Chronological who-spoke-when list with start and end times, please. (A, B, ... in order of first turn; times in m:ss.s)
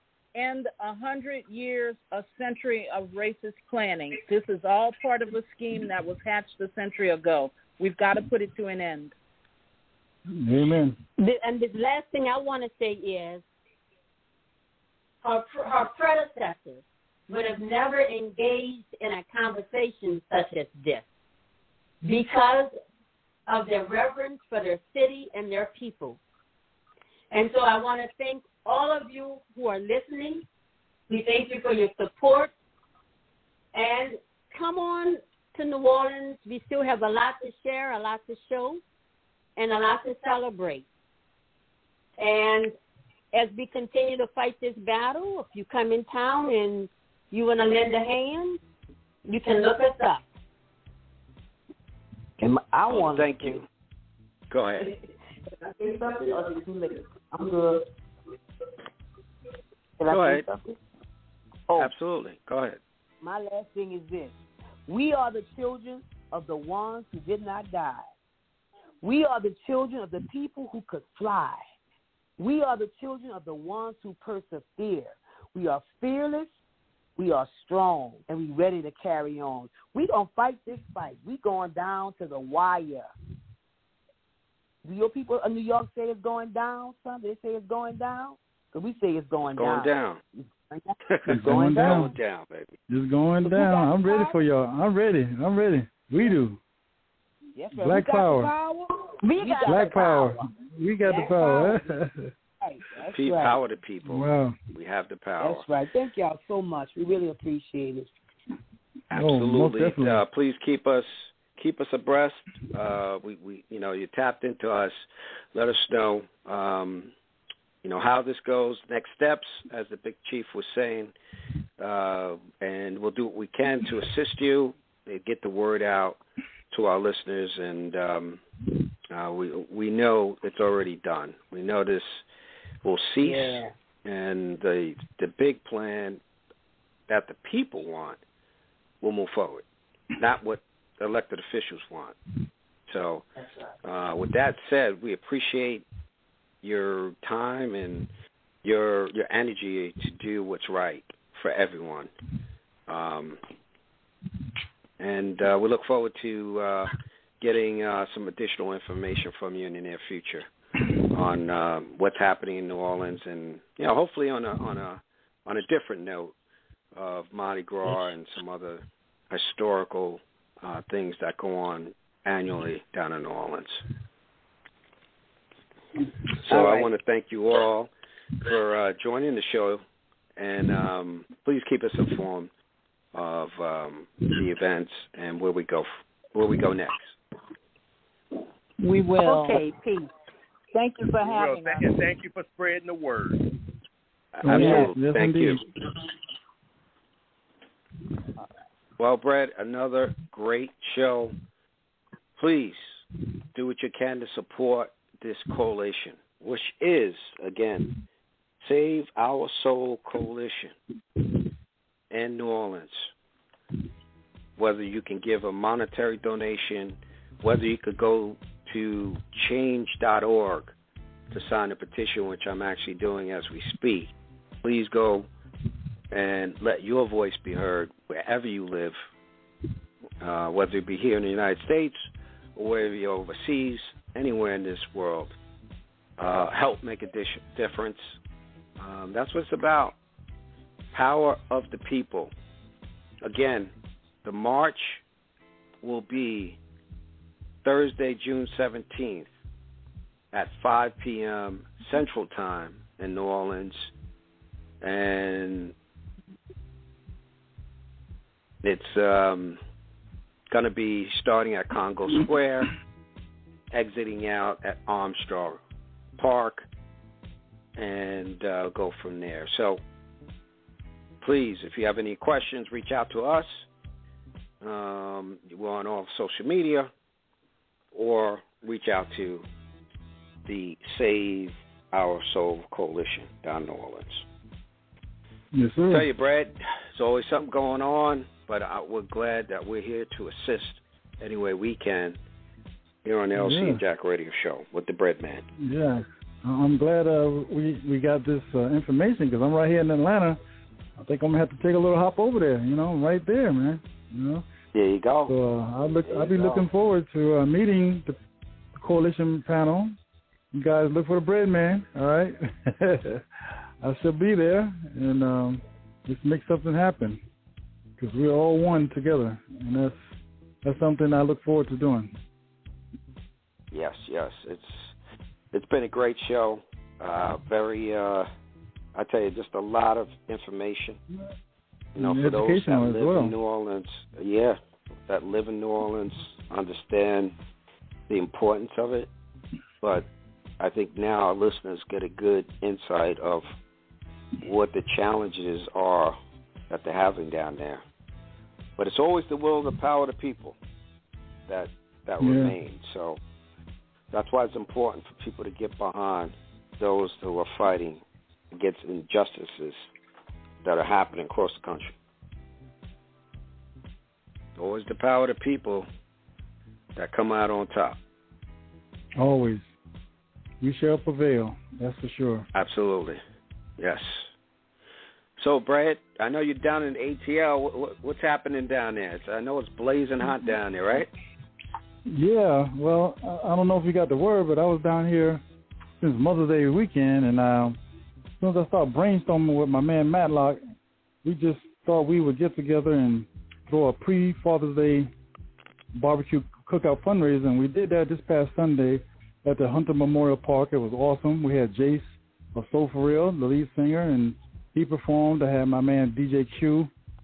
0:00.4-0:09.2 A
0:10.3-0:11.0 B
0:11.2-0:13.4 C
0:15.2-0:21.0 C
0:22.0-0:22.7 C
0:23.5-0:26.2 C
0:27.3-0:30.4 C
0:31.1-0:32.5 C
0:33.7-0:38.8 C
0:39.6-0:40.9 C
0:42.2-0:42.8 C
0:43.3-0:48.6 C
0:49.3-0:50.2 C
0:52.4-0:53.6 D
0:52.9-0:53.6 E
0:54.5-0:54.9 E
0:55.5-0:57.8 D
1:00.0-1:00.8 D
1:00.1-1:00.4 E
1:01.7-1:01.9 D
1:01.8-1:02.8 E
1:03.2-1:04.4 D
1:04.9-1:08.1 D
1:09.0-1:11.6 D
1:12.4-1:16.5 D
1:17.2-1:23.1 D
1:24.8-1:32.1 D
1:29.5-1:30.2 E
1:31.1-1:32.7 E
1:31.3-1:32.1 B
1:32.9-1:36.6 B
1:33.4-1:34.4 D
1:37.6-1:40.4 D
1:37.8-1:38.5 B
1:39.2-1:40.3 C
1:39.7-1:42.3 B
1:41.0-1:42.0 D
1:42.6-1:43.6 D
1:43.1-1:45.6 E
1:44.1-1:44.6 B
1:45.4-1:48.1 D
1:49.1-1:57.1 E
1:49.1-1:50.2 B
1:57.8-2:01.1 E
2:01.8-2:08.4 E
2:09.1-2:12.2 E
2:12.8-2:16.2 E
2:13.2-2:13.7 D
2:17.1-2:18.2 E
2:19.0-2:19.6 E
2:20.2-2:22.2 E
2:22.9-2:23.3 E
2:23.8-2:25.9 E
2:26.6-2:28.1 E
2:28.6-2:32.1 E
2:32.9-2:33.4 E
2:35.0-2:40.5 E
2:41.0-2:46.3 E
2:46.9-2:53.8 E
2:56.4-2:59.8 E
2:56.5-2:56.9 D
3:00.4-3:02.5 E
3:03.1-3:07.1 E
3:08.8-3:09.6 A
3:09.1-3:10.1 C
3:10.7-3:12.0 A
3:11.2-3:13.5 F
3:14.4-3:15.6 E
3:14.4-3:15.6 B
3:19.0-3:21.3 E
3:22.4-3:23.0 E
3:23.5-3:27.9 E
3:28.6-3:30.8 E
3:32.1-3:33.1 E
3:34.6-3:40.7 E
3:41.3-3:45.3 E
3:46.1-3:49.0 E
3:50.2-3:52.0 E
3:52.6-3:55.4 E
3:56.2-3:58.2 E
3:58.8-4:00.0 E
4:00.9-4:02.3 E
4:03.2-4:03.7 E
4:04.2-4:05.0 E
4:05.8-4:06.6 E
4:07.6-4:09.3 E
4:10.3-4:13.9 E
4:14.8-4:15.8 E
4:18.6-4:19.6 E
4:20.5-4:22.7 E
4:23.7-4:25.6 E
4:26.2-4:26.6 E
4:27.8-4:29.8 E
4:31.2-4:33.7 E
4:34.6-4:36.9 E
4:37.9-4:39.5 E
4:40.4-4:44.2 E
4:45.5-4:46.1 B
4:45.9-4:52.2 E
4:53.0-4:55.4 E
4:53.4-4:53.8 B
4:55.6-5:00.4 B
5:01.0-5:04.4 B
5:04.7-5:05.3 E
5:05.3-5:08.2 B
5:06.1-5:06.7 E
5:08.8-5:10.0 B
5:10.5-5:13.2 B
5:13.8-5:17.2 B
5:18.0-5:20.0 B
5:20.6-5:22.2 B
5:23.7-5:24.9 E
5:25.5-5:28.3 E
5:28.9-5:31.0 E
5:32.0-5:33.3 B
5:32.0-5:37.4 E
5:38.1-5:39.1 E
5:39.8-5:40.1 E
5:40.6-5:43.5 E
5:44.4-5:46.2 E
5:46.7-5:47.8 E
5:48.8-5:50.6 E
5:51.5-5:53.2 E
5:52.2-5:52.6 B
5:54.1-5:59.8 E
6:00.6-6:02.0 E
6:04.6-6:05.9 E
6:07.0-6:08.0 E
6:09.2-6:09.6 B
6:10.6-6:12.5 B
6:12.5-6:13.2 E
6:13.8-6:14.3 E
6:15.4-6:21.1 E
6:22.1-6:25.4 B
6:26.0-6:27.8 B
6:28.4-6:30.6 B
6:31.2-6:35.1 B
6:36.0-6:46.9 B